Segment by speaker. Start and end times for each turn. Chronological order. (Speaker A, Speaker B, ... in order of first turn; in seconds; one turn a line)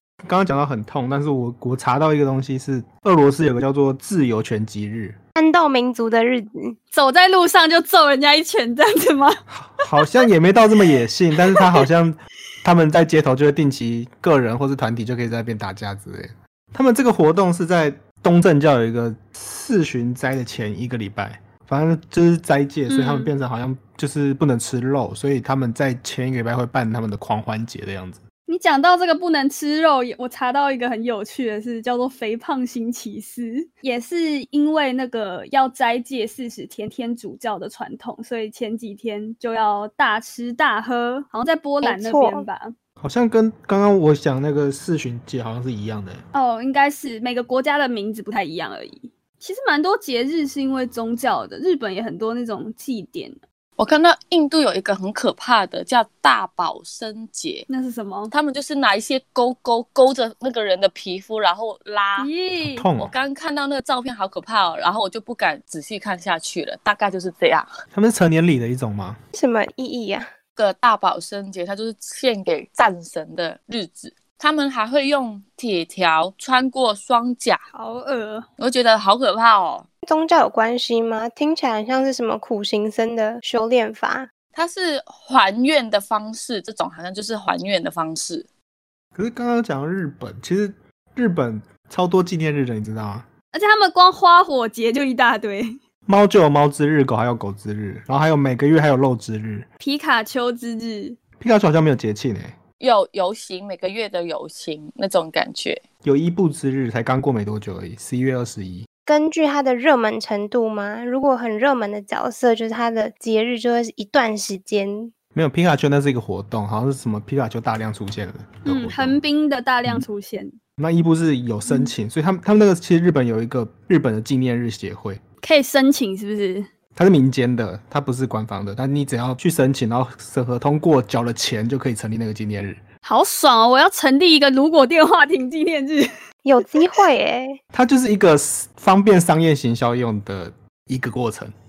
Speaker A: 0.2-5.2
Speaker B: 5.4-6.8
Speaker C: 6.9-9.4
Speaker A: 9.5-28.2
Speaker C: 11.5-11.8
Speaker C: 22.9-23.3
Speaker C: 28.5-42.7
Speaker B: 41.8-42.5
Speaker A: 43.0-46.2
Speaker C: 46.3-53.4
Speaker D: 53.8-57.7
Speaker C: 57.7-58.3
Speaker D: 58.3-62.3
Speaker C: 62.2-62.9
Speaker A: 62.7-63.1
Speaker D: 63.0-67.7
Speaker A: 67.9-69.2
Speaker B: 69.3-70.3
Speaker D: 70.6-77.6
Speaker C: 77.7-78.5
Speaker D: 78.6-79.9
Speaker B: 80.0-84.3
Speaker D: 84.5-88.5
Speaker A: 89.2-93.3
Speaker C: 93.5-95.8
Speaker A: 96.1-99.7
Speaker C: 99.8-101.2
Speaker A: 101.4-102.6
Speaker D: 102.8-105.8
Speaker A: 106.0-108.9
Speaker B: 109.1-115.1
Speaker A: 115.3-119.2
Speaker C: 118.7-120.5
Speaker A: 120.8-125.2
Speaker C: 121.7-121.9
Speaker C: 125.4-126.7
Speaker A: 127.0-132.8
Speaker C: 133.0-136.1
Speaker B: 136.4-137.6
Speaker A: 137.7-141.5